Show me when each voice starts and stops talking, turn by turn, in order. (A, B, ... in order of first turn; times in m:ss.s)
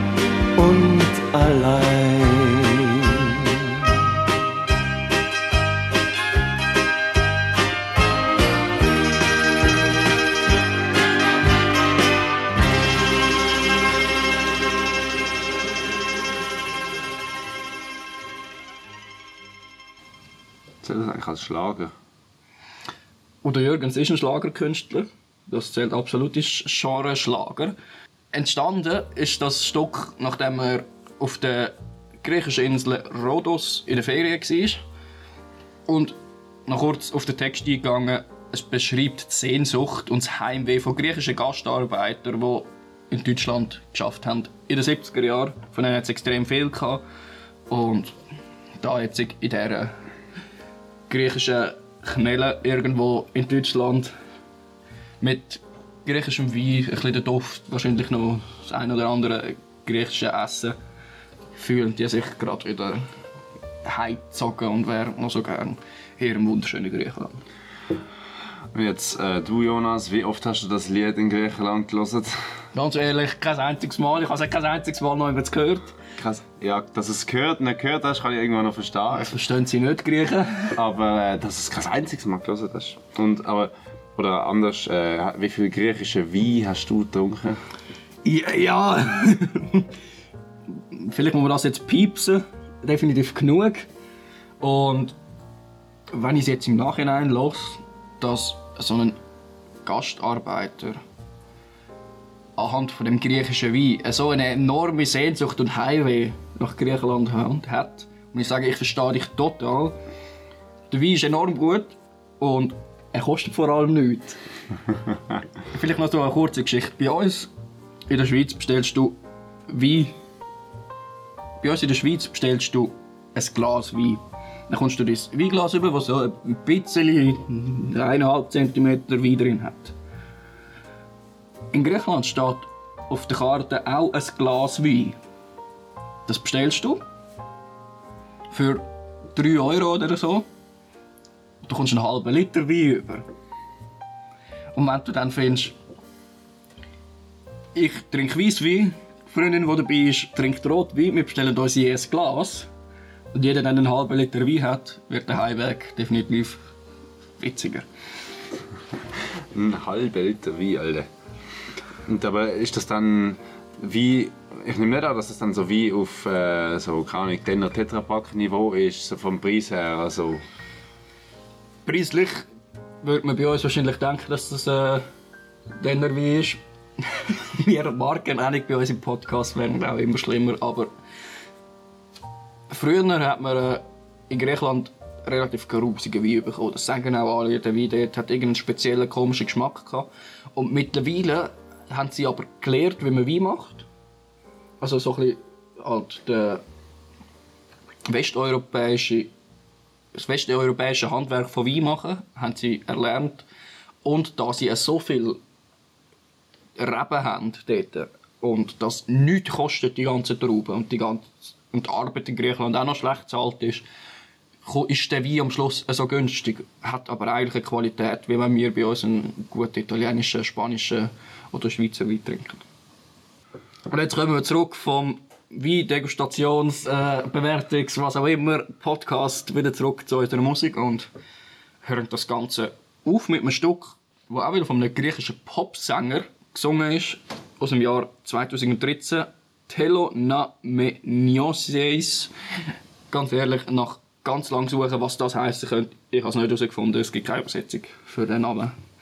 0:00.6-0:04.0 A
0:20.8-0:21.9 B
0:23.4-0:27.7 C
0:28.3-0:34.8 C
0:35.9-0:36.2 C
0:36.7-0:47.0 C
0:47.7-0:48.1 C
0:48.8-0:49.9 C
0:51.1-0:54.1 C
0:55.2-1:00.8 C
1:01.5-1:03.0 C
1:03.8-1:07.4 C
1:08.7-1:12.6 B
1:12.7-1:16.0 C
1:16.2-1:19.4 B
1:19.1-1:20.8 C
1:20.7-1:27.6 B
1:28.2-1:29.9 C
1:30.7-1:33.9 C
1:34.6-1:35.2 C
1:36.1-1:39.2 C
1:39.8-1:41.0 C
1:42.6-1:50.0 C
1:50.9-1:54.4 C
1:55.7-1:57.5 C
1:58.1-1:59.2 C
1:59.7-2:00.1 C
2:01.6-2:09.9 C
2:11.7-2:15.2 C
2:16.2-2:17.0 C
2:18.5-2:20.5 C
2:21.6-2:23.3 C
2:24.7-2:25.8 C
2:27.7-2:32.7 C
2:33.3-2:36.6 C
2:37.4-2:37.9 C
2:39.5-2:41.1 B
2:42.1-2:50.4 B
2:51.8-2:52.5 C
2:53.0-2:55.0 C
2:55.8-3:00.9 C
3:02.7-3:13.9 C
3:14.8-3:16.6 C
3:18.1-3:19.3 C
3:20.1-3:23.4 C
3:24.0-3:25.4 C
3:26.8-3:33.8 C
3:34.6-3:42.6 C
3:43.9-3:51.1 C
3:51.8-4:02.3 C
4:03.1-4:08.7 C